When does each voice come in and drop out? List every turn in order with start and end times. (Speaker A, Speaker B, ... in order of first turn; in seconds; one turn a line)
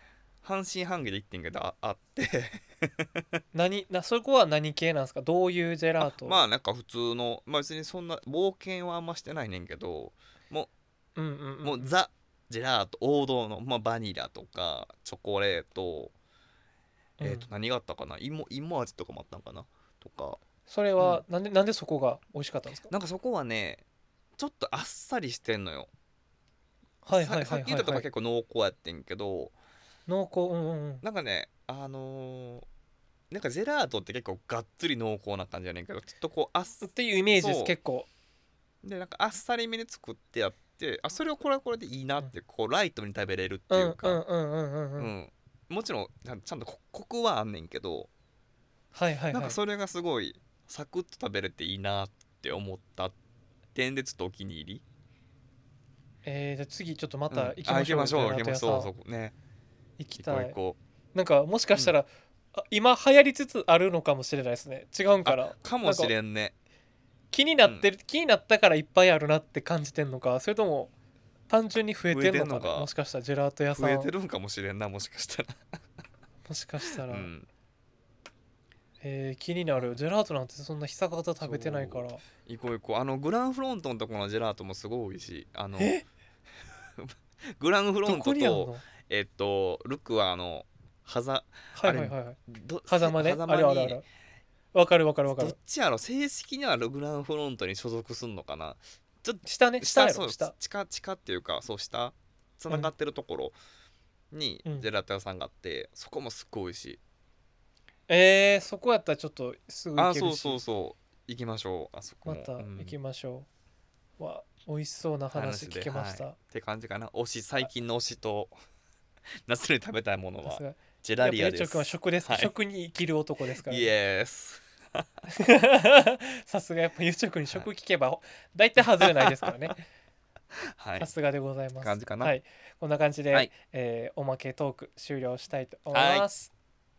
Speaker A: 0.4-3.2
Speaker B: 3.5-6.4
Speaker A: 6.0-10.7
Speaker B: 11.2-11.9
Speaker A: 11.6-16.1
Speaker B: 17.2-17.5
Speaker A: 17.2-20.4
Speaker B: 20.7-22.9
Speaker A: 22.9-23.8
Speaker A: 24.4-25.9
Speaker B: 27.0-28.1
Speaker A: 27.1-29.5
Speaker B: 30.1-31.0
Speaker A: 31.0-32.7
Speaker A: 33.3-37.7
Speaker B: 36.8-38.1
Speaker A: 38.8-44.2
Speaker B: 43.7-45.1
Speaker A: 45.0-48.1
Speaker B: 48.9-49.6
Speaker A: 49.3-53.1
Speaker A: 53.7-54.8
Speaker B: 56.2-58.9
Speaker A: 57.3-59.3
Speaker B: 60.0-60.5
Speaker A: 60.1-60.8
Speaker B: 61.1-66.1
Speaker A: 65.2-66.5
Speaker B: 67.3-70.9
Speaker B: 71.5-74.1
Speaker A: 72.1-72.9
Speaker A: 73.7-75.6
Speaker B: 76.5-77.3
Speaker A: 77.1-77.5
Speaker B: 79.0-82.2
Speaker A: 81.4-85.9
Speaker B: 85.8-86.0
Speaker A: 87.0-94.0
Speaker B: 88.0-88.8
Speaker B: 91.8-94.0
Speaker B: 94.7-95.5
Speaker A: 95.3-103.5
Speaker B: 99.4-100.5
Speaker A: 104.3-107.0
Speaker B: 108.1-110.6
Speaker A: 110.0-112.9
Speaker B: 112.2-113.5
Speaker B: 114.2-116.3
Speaker A: 115.3-118.6
Speaker A: 119.5-122.5
Speaker B: 120.4-123.9
Speaker A: 123.7-125.1
Speaker B: 125.3-129.8
Speaker A: 129.0-129.5
Speaker A: 130.7-131.1
Speaker B: 131.0-136.5
Speaker A: 131.8-132.3
Speaker A: 135.9-136.3